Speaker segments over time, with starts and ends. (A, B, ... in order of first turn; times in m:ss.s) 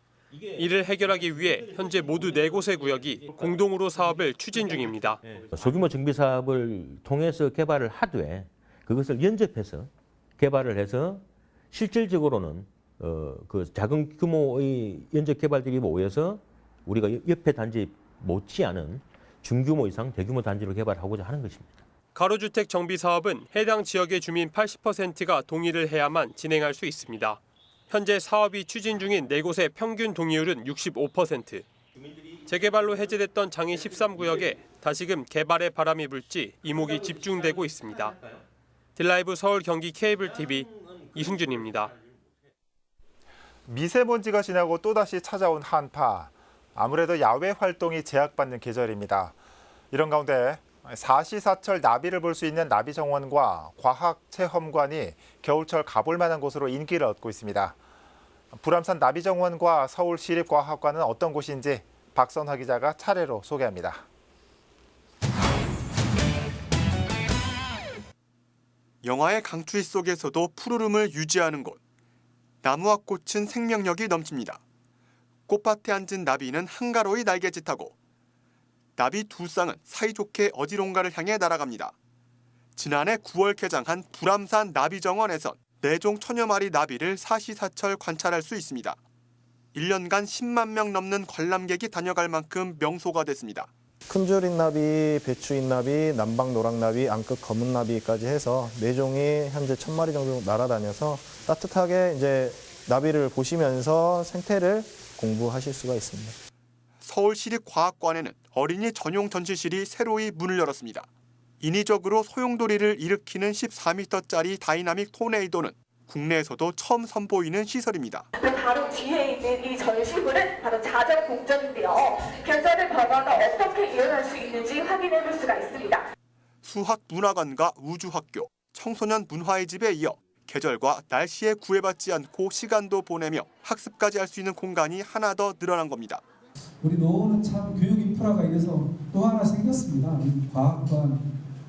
0:00.3-0:21.8 A
0:00.5-0:05.2 B
0:22.1-0:31.7 B
0:32.0-0:34.6 A
0:32.5-0:38.2 B
0:36.6-0:38.4 A
0:39.0-0:41.9 B
0:40.2-0:42.1 A
0:43.7-0:49.4 C
0:49.9-0:57.8 C
0:58.5-1:04.0 C
1:09.0-1:11.8 D
1:12.6-1:14.6 D
1:15.5-1:17.9 D
1:19.0-1:21.9 D
1:22.8-1:29.0 D
1:29.7-1:33.7 D
1:34.0-1:46.4 E
1:47.0-1:51.1 D
1:51.6-1:58.3 D
1:58.4-2:06.0 F
2:06.6-2:16.2 D
2:16.8-2:21.3 G